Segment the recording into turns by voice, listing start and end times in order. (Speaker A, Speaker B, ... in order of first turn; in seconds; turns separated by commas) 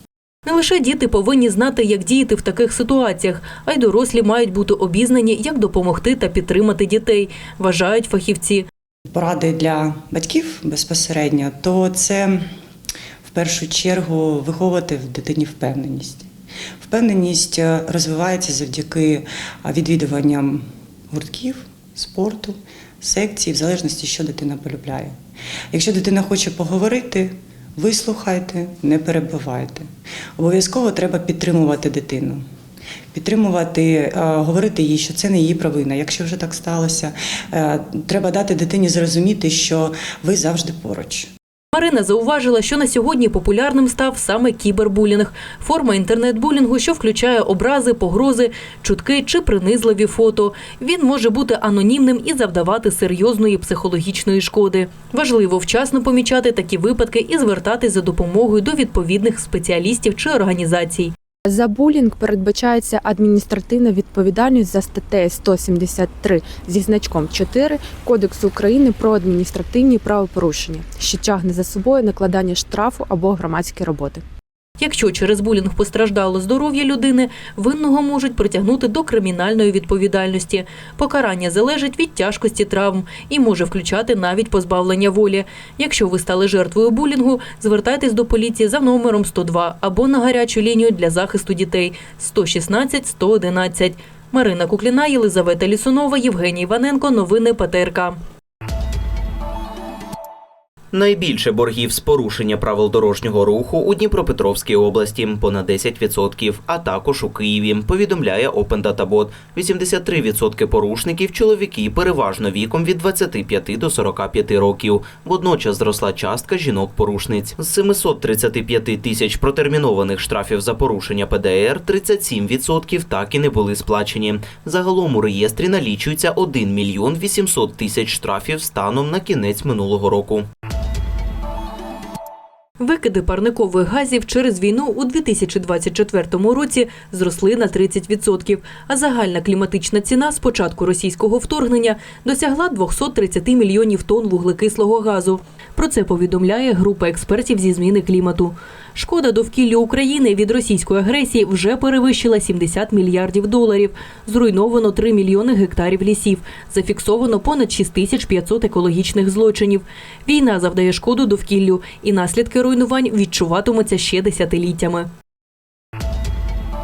Speaker A: 0.5-8.7, Speaker B: 9.1-12.4, Speaker B: 13.3-25.2, Speaker B: 25.7-32.4, Speaker B: 33.1-41.3, Speaker A: 41.7-61.1, Speaker C: 61.5-74.2, Speaker A: 74.8-98.2, Speaker D: 100.9-130.5, Speaker A: 132.8-165.1